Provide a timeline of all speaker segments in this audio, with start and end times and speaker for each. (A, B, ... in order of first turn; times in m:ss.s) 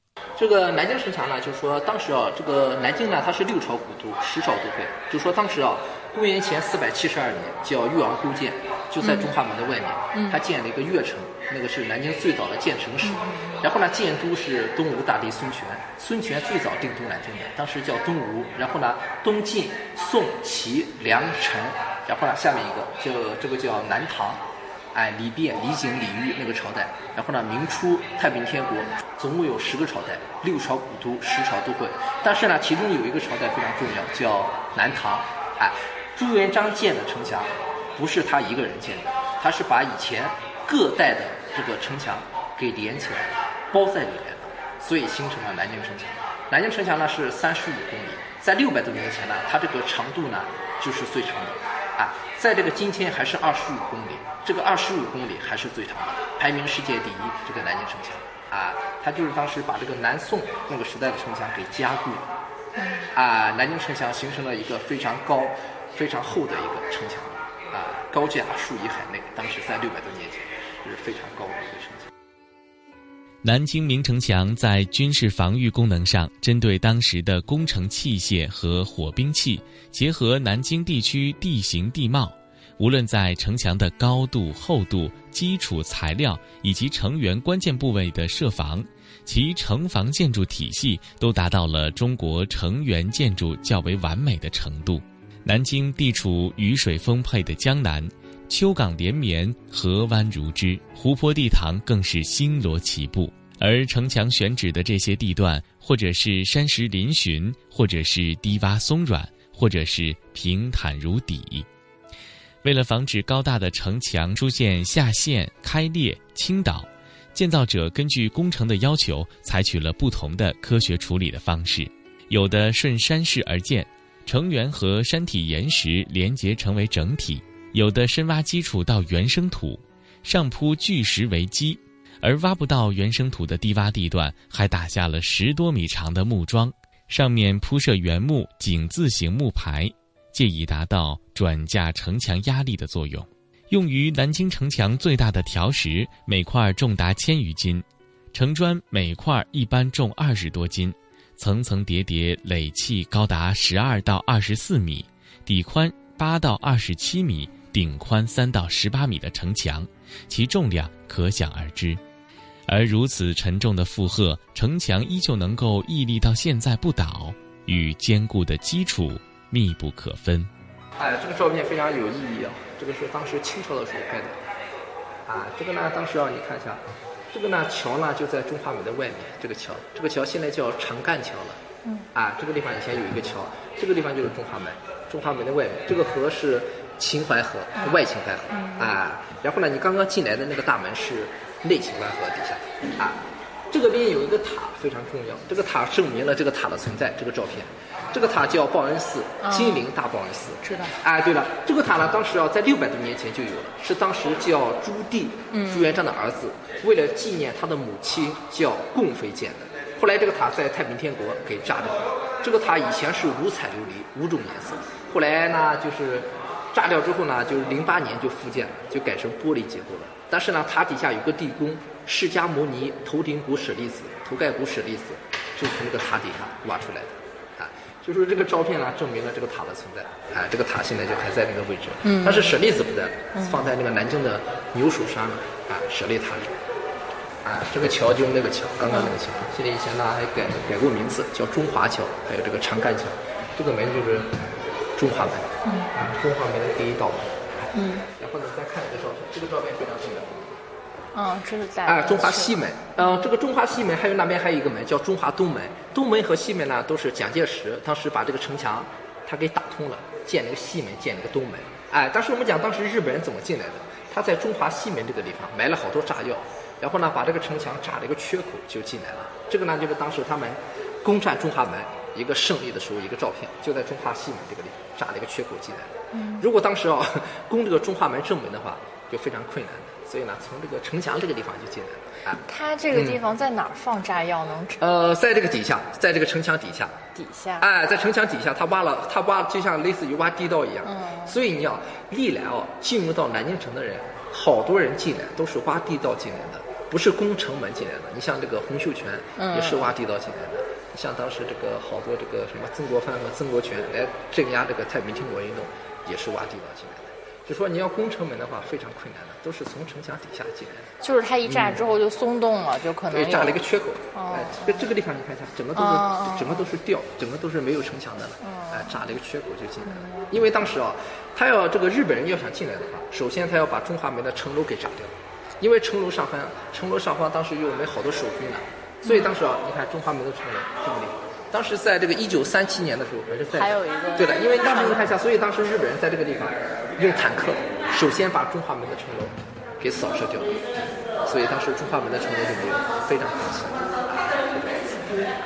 0:00.4-1:02.3 A
0:09.0-0:09.3 B
0:10.1-0:10.4 B
0:13.0-0:13.4 B
1:02.8-1:03.0 B
1:03.1-1:12.1 A
1:13.4-1:51.7 C
1:52.6-2:42.0 C
2:42.7-2:50.5 C
2:51.0-2:54.4 A
2:55.3-3:01.6 A
3:02.1-3:56.5 A
3:08.5-3:08.8 B
3:19.4-3:19.8 B
3:20.6-3:20.9 B
3:25.5-3:26.0 B
3:52.0-3:52.5 B
3:57.4-4:04.4 A
4:05.0-4:10.5 A
4:05.6-4:05.9 B
4:07.7-4:08.0 B
4:11.1-4:12.5 B
4:11.8-4:43.2 A
4:36.1-4:36.4 B
4:42.4-4:44.8 B
4:44.8-4:46.9 A
4:47.2-4:47.7 B
4:47.6-5:10.9 A
4:50.8-4:51.3 B
4:59.4-4:59.9 B
5:11.0-5:13.6 B
5:11.4-5:11.8 A
5:13.1-5:40.6 A
5:14.1-5:14.8 B
5:15.8-5:16.6 B
5:18.4-5:18.8 B
5:29.0-5:29.3 B
5:33.5-5:35.0 B
5:41.2-5:45.0 A